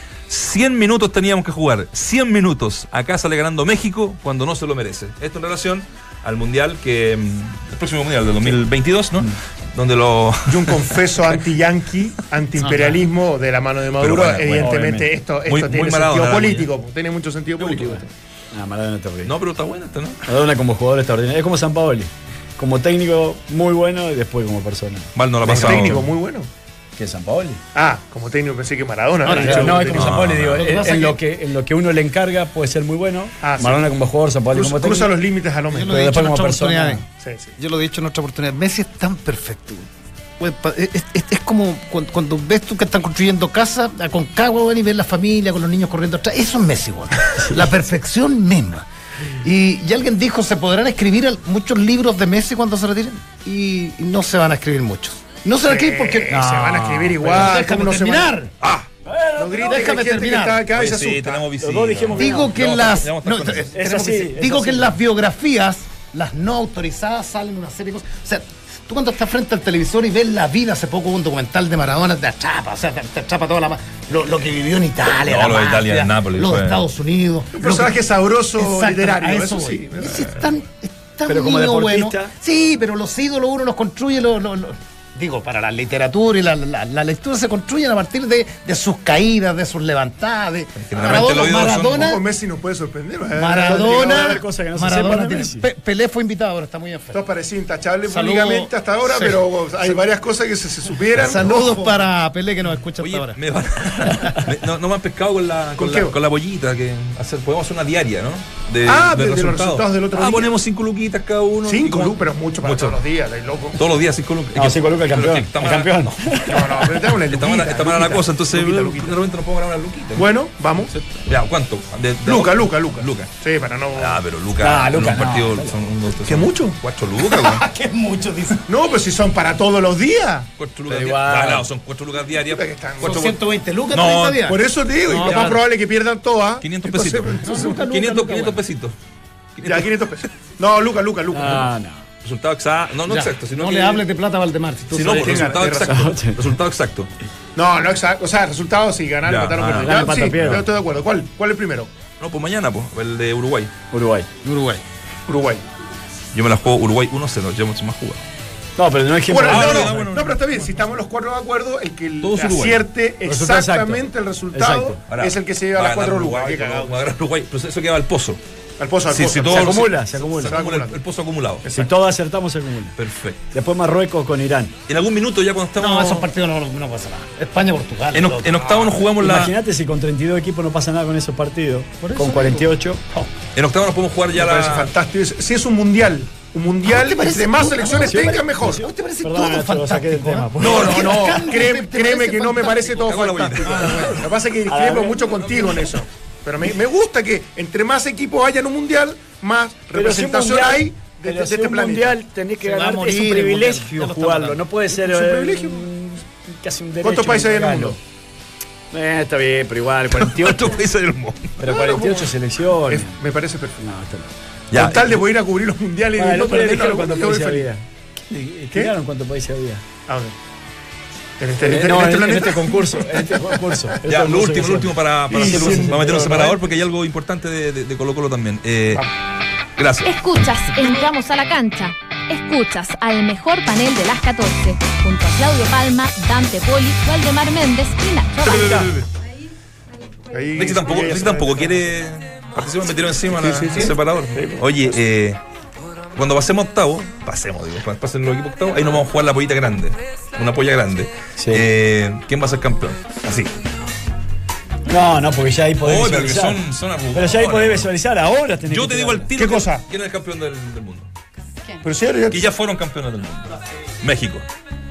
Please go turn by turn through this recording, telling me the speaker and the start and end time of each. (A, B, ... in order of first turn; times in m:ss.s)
0:00.3-0:11.4 A
0:10.5-0:18.0 B
0:12.6-0:13.0 C
0:14.0-0:14.8 A
0:14.6-0:15.1 D
0:15.5-0:16.7 A
0:17.6-0:18.1 A
0:18.5-0:19.3 D
0:19.2-0:20.2 A
0:20.2-0:26.0 D
0:25.2-0:26.1 A
0:25.4-0:26.5 B
0:27.0-0:27.6 D
0:27.7-0:30.3 B
0:29.2-0:29.9 C
0:29.3-0:35.1 D
0:29.8-0:30.7 A
0:30.5-0:31.2 C
0:33.4-0:33.9 B
0:34.5-0:36.0 B
0:35.7-0:37.0 C
0:35.8-0:37.0 D
0:37.2-0:37.5 B
0:37.6-0:39.9 C
0:40.4-0:48.9 C
0:47.4-0:47.6 D
0:49.4-0:58.5 C
0:55.6-0:58.4 B
0:56.3-0:57.5 D
0:58.6-0:58.9 A
0:59.0-0:59.8 D
0:59.4-1:01.5 B
0:59.6-1:00.7 C
1:00.7-1:03.7 A
1:01.6-1:02.5 D
1:02.1-1:18.0 C
1:03.7-1:05.0 D
1:15.2-1:16.8 A
1:17.6-1:20.3 B
1:18.6-1:32.2 C
1:20.1-1:20.4 A
1:21.3-1:22.3 D
1:30.8-1:32.1 A
1:31.0-1:31.3 B
1:31.9-1:34.4 B
1:33.3-1:37.2 C
1:33.6-1:35.7 D
1:37.1-1:42.0 B
1:38.1-1:39.4 C
1:41.2-1:43.4 C
1:43.0-1:53.0 A
1:45.8-1:46.2 B
1:48.8-1:50.6 B
1:51.6-1:53.8 B
1:53.8-1:56.4 A
1:54.6-1:56.7 D
1:56.4-1:59.2 B
1:57.3-2:00.3 A
2:00.2-2:00.9 B
2:00.9-2:03.3 A
2:02.2-2:04.2 B
2:04.0-2:07.6 A
2:04.6-2:05.8 D
2:06.3-2:06.8 B
2:07.2-2:08.6 C
2:08.7-2:10.5 B
2:10.6-2:13.3 A
2:10.9-2:11.7 D
2:12.5-2:13.4 B
2:13.0-2:15.7 C
2:13.9-2:14.4 A
2:14.4-2:17.8 B
2:16.6-2:19.0 A
2:17.2-2:18.6 C
2:19.6-2:20.2 A
2:19.6-2:21.7 B
2:21.3-2:22.0 D
2:22.2-2:24.1 A
2:23.1-2:25.6 C
2:24.9-2:27.1 A
2:25.0-2:26.1 B
2:25.9-2:26.4 D
2:27.6-2:31.9 B
2:29.2-2:30.7 A
2:29.7-2:30.6 D
2:32.2-2:33.7 A
2:33.9-2:34.3 D
2:34.4-2:34.8 C
2:35.3-2:35.6 B
2:36.3-2:38.2 A
2:38.8-2:40.1 D
2:39.3-2:46.9 B
2:39.5-2:40.7 A
2:42.2-2:42.9 A
2:43.2-2:45.0 D
2:45.1-2:48.4 A
2:48.8-2:51.0 B
2:49.1-2:51.6 A
2:49.5-2:50.6 D
2:51.6-2:51.9 B
2:51.7-2:53.0 D
2:53.0-2:53.4 A
2:53.5-2:54.7 D
2:54.9-2:56.3 A
2:55.8-2:58.8 C
2:58.1-2:59.5 A
2:59.2-3:03.0 D
3:02.0-3:03.3 C
3:03.6-3:04.9 A
3:04.3-3:08.8 B
3:06.9-3:14.2 C
3:07.9-3:08.7 D
3:09.2-3:11.2 D
3:10.6-3:22.2 B
3:12.9-3:14.2 A
3:14.7-3:15.9 D
3:19.9-3:28.0 D
3:22.6-3:24.6 C
3:24.9-3:25.9 B
3:27.0-3:28.0 B
3:28.9-3:30.8 D
3:30.2-3:31.6 A
3:31.6-3:33.2 D
3:31.6-3:32.4 B
3:32.9-3:33.8 B
3:33.8-3:34.3 D
3:34.7-3:35.2 A
3:34.7-3:37.7 B
3:36.2-3:39.8 D
3:40.1-3:40.3 B
3:41.4-3:43.9 B
3:41.7-3:46.6 D
3:44.1-3:49.1 A
3:45.3-3:46.5 B
3:49.8-3:50.1 A
3:50.0-3:58.9 E
3:58.4-3:59.1 A
4:00.3-4:01.9 B
4:00.6-4:05.4 A
4:03.3-4:05.0 B
4:06.1-4:13.5 A
4:11.4-4:11.7 D
4:14.9-4:19.3 D
4:15.8-4:17.9 A
4:18.7-4:21.1 A
4:19.4-4:19.8 B
4:21.8-4:22.5 B
4:22.3-4:24.4 A